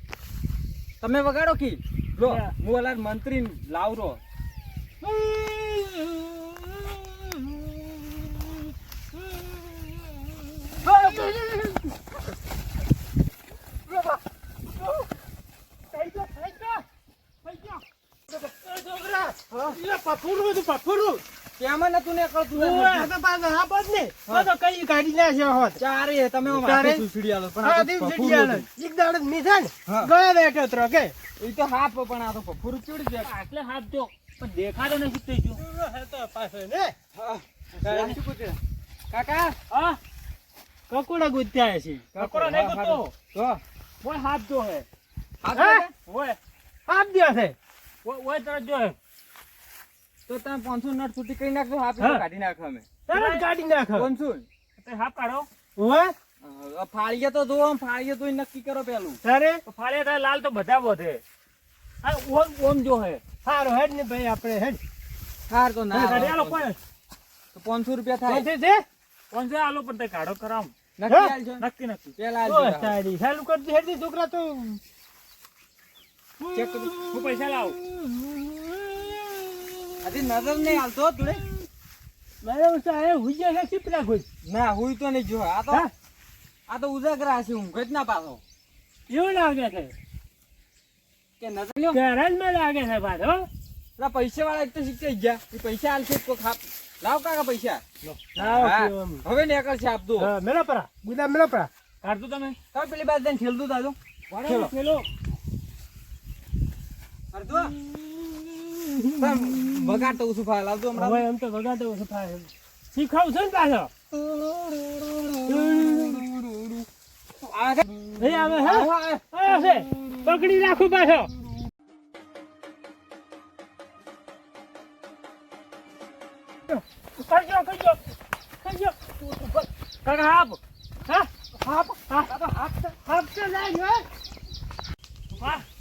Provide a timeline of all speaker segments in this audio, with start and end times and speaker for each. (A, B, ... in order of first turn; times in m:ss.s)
0:01.0-0:04.2 A
0:10.8-0:11.5 B
0:15.9-0:16.8 B
0:17.5-0:17.8 B
0:18.3-0:21.2 B
0:21.6-0:23.1 A
0:22.5-0:25.8 B
0:25.8-0:28.7 A
0:26.5-0:27.1 B
0:27.6-0:31.1 B
0:29.9-0:30.1 A
0:31.4-0:33.4 A
0:33.2-0:35.6 C
0:35.6-0:37.0 B
0:37.2-0:38.6 A
0:37.9-0:38.2 C
0:39.1-0:39.6 A
0:39.7-0:40.0 C
0:40.9-0:42.1 B
0:42.1-0:43.6 A
0:42.2-0:43.1 C
0:44.0-0:44.9 C
0:45.4-0:45.9 A
0:45.5-0:45.8 B
0:46.1-0:46.4 C
0:46.9-0:47.6 B
0:48.0-0:49.0 C
0:50.3-0:52.9 A
0:53.1-0:54.1 B
0:53.1-0:53.4 C
0:53.9-0:54.5 A
0:54.8-0:55.5 C
0:55.8-0:56.1 B
0:56.4-0:59.2 A
0:59.2-0:59.6 B
0:59.7-1:01.2 C
1:02.0-1:03.2 C
1:03.4-1:04.8 B
1:05.5-1:06.7 A
1:05.9-1:06.4 B
1:06.0-1:06.8 C
1:07.5-1:08.5 A
1:08.3-1:08.8 B
1:09.3-1:10.7 C
1:11.0-1:13.0 A
1:11.1-1:11.3 B
1:11.6-1:12.1 C
1:12.4-1:14.8 B
1:16.5-1:17.1 A
1:16.9-1:17.8 C
1:20.0-1:21.4 A
1:22.4-1:24.3 B
1:24.4-1:25.9 A
1:26.7-1:28.4 A
1:29.1-1:29.9 B
1:31.4-1:32.0 A
1:31.9-1:33.5 B
1:34.0-1:37.8 A
1:38.4-1:40.3 A
1:38.4-1:39.2 B
1:40.2-1:41.7 B
1:42.0-1:42.6 C
1:42.7-1:44.7 A
1:44.4-1:44.7 C
1:44.5-1:45.0 B
1:47.3-1:47.8 A
1:49.2-1:51.3 A
1:51.0-1:53.9 B
1:54.1-1:56.9 A
1:55.5-1:56.3 B
1:57.4-1:59.7 A
1:58.2-2:01.3 B
2:07.2-2:08.0 B
2:08.6-2:09.7 B
2:10.0-2:10.6 C
2:11.7-2:12.9 A
2:12.1-2:12.3 B
2:12.9-2:14.1 B